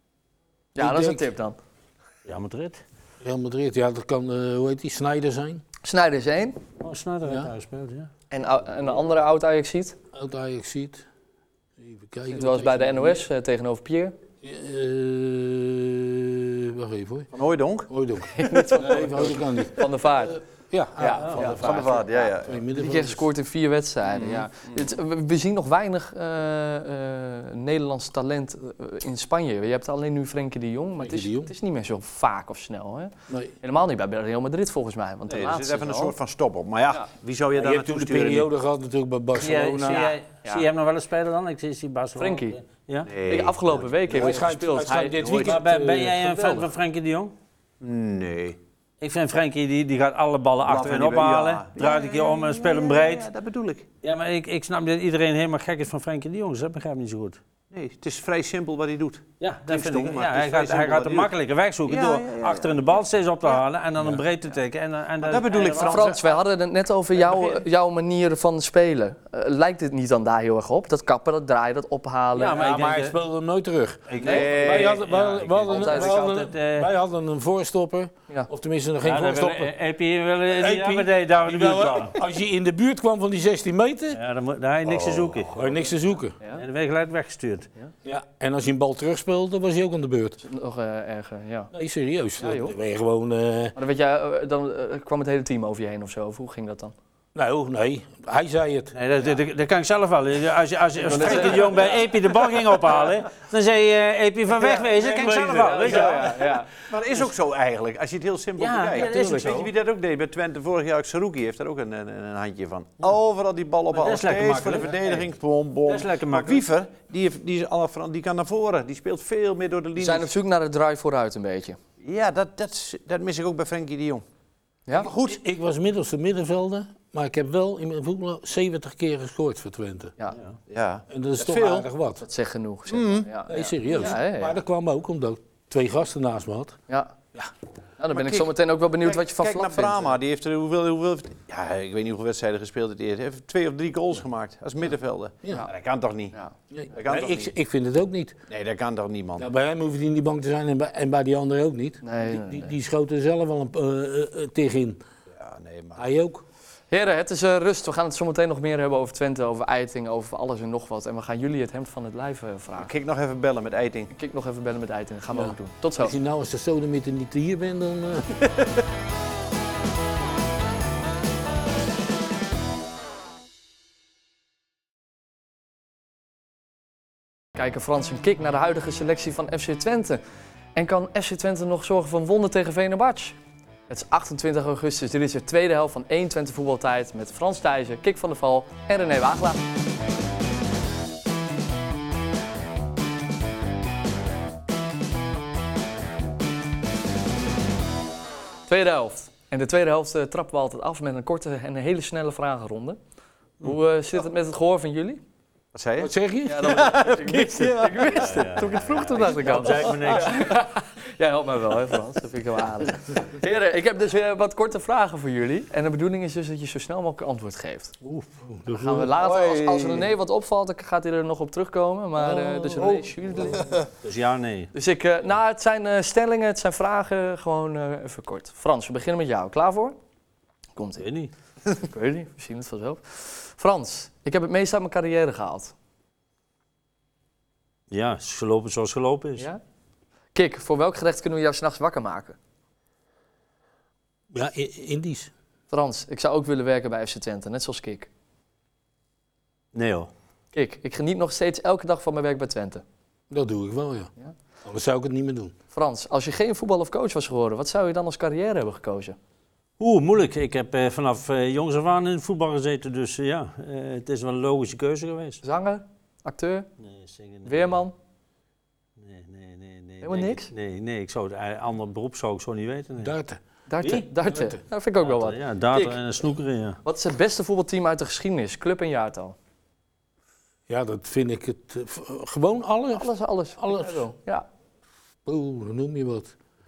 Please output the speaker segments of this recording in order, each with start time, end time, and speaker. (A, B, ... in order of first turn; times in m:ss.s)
0:00.8-0:01.6 A
0:00.8-0:01.3 B
0:02.2-0:02.8 C
0:03.2-0:05.6 B
0:05.8-0:06.6 A
0:06.8-0:08.1 C
0:07.2-0:07.5 B
0:08.3-0:10.0 A
0:10.1-0:11.1 B
0:11.8-0:13.2 B
0:12.3-0:14.2 A
0:14.4-0:17.3 B
0:17.3-0:17.9 D
0:17.9-0:23.2 B
0:18.3-0:20.4 A
0:21.0-0:36.2 A
0:21.4-0:22.6 D
0:24.1-0:24.8 D
0:31.0-0:31.5 B
0:35.3-0:38.5 D
0:37.6-0:40.1 B
0:39.3-0:43.1 C
0:39.9-0:40.7 A
0:42.2-0:42.6 A
0:43.0-0:44.4 D
0:43.2-0:45.3 A
0:44.1-0:46.7 B
0:45.2-0:45.6 D
0:45.4-0:47.3 C
0:47.8-0:48.6 D
0:49.0-0:53.3 C
0:50.6-0:53.9 D
0:54.0-0:57.4 C
0:57.7-1:01.3 D
0:59.4-1:06.1 C
1:01.9-1:02.8 D
1:05.2-1:06.4 D
1:05.8-1:12.7 A
1:07.2-1:07.6 D
1:12.4-1:13.2 C
1:12.6-1:19.7 B
1:14.1-1:16.9 C
1:14.2-1:14.5 A
1:14.2-1:15.1 D
1:15.7-1:16.2 A
1:19.0-1:22.2 C
1:20.5-1:24.2 B
1:24.1-1:25.5 C
1:24.9-1:25.3 D
1:25.5-1:26.4 B
1:26.6-1:27.7 C
1:28.0-1:30.4 B
1:30.4-1:31.7 A
1:31.7-1:33.8 B
1:32.4-1:32.8 A
1:33.8-1:36.9 A
1:37.4-1:38.9 B
1:38.9-1:46.3 C
1:41.0-1:42.0 A
1:41.2-1:42.0 D
1:44.6-2:00.3 D
1:45.0-1:46.2 B
1:45.5-1:46.7 A
1:48.6-1:49.7 C
1:49.0-1:49.6 B
1:53.9-1:55.2 C
1:55.9-1:56.6 C
2:00.0-2:01.8 A
2:02.0-2:04.2 D
2:05.0-2:05.4 D
2:05.0-2:10.1 B
2:10.7-2:11.9 D
2:11.1-2:12.2 B
2:12.2-2:14.6 A
2:12.9-2:13.3 D
2:13.5-2:16.8 B
2:16.9-2:17.1 A
2:18.0-2:20.2 A
2:18.1-2:26.4 D
2:26.7-2:28.4 B
2:26.9-2:27.5 D
2:28.5-2:29.5 D
2:29.4-2:35.0 B
2:32.0-2:32.7 A
2:35.3-2:36.0 D
2:36.0-2:36.4 B
2:36.9-2:42.9 A
2:42.8-2:44.1 D
2:44.1-2:46.2 A
2:45.3-2:48.5 B
2:57.6-3:00.2 A
3:00.8-3:03.4 A
3:03.9-3:09.6 A
3:18.7-3:23.0 A
3:23.6-3:25.2 A
3:25.7-3:26.1 D
3:26.0-3:27.0 B
3:26.5-3:37.9 A
3:26.6-3:28.1 D
3:28.1-3:30.4 C
3:38.4-3:39.2 B
3:38.7-3:43.8 A
3:39.3-3:39.9 D
3:42.2-3:43.1 B
3:44.0-3:44.7 C
3:44.7-3:50.0 A
3:50.8-3:51.1 A
3:51.0-3:51.3 C
3:51.7-3:55.7 A
3:57.9-3:59.5 C
4:00.3-4:02.4 A
4:04.3-4:05.3 B
4:05.7-4:08.1 A
4:09.7-4:10.1 C
4:10.5-4:12.8 A
4:13.3-4:14.1 B
4:14.6-4:15.6 B
4:15.7-4:19.2 A
4:19.8-4:25.4 C
4:25.4-4:26.7 A
4:26.8-4:27.7 C
4:27.5-4:27.9 A
4:29.0-4:33.1 C
4:30.0-4:30.5 A
4:33.0-4:33.4 B
4:33.7-4:36.0 A
4:34.3-4:34.6 B
4:35.0-4:36.8 C
4:36.8-4:39.4 A
4:40.7-4:44.1 B
4:42.9-4:44.4 A
4:45.2-4:46.3 B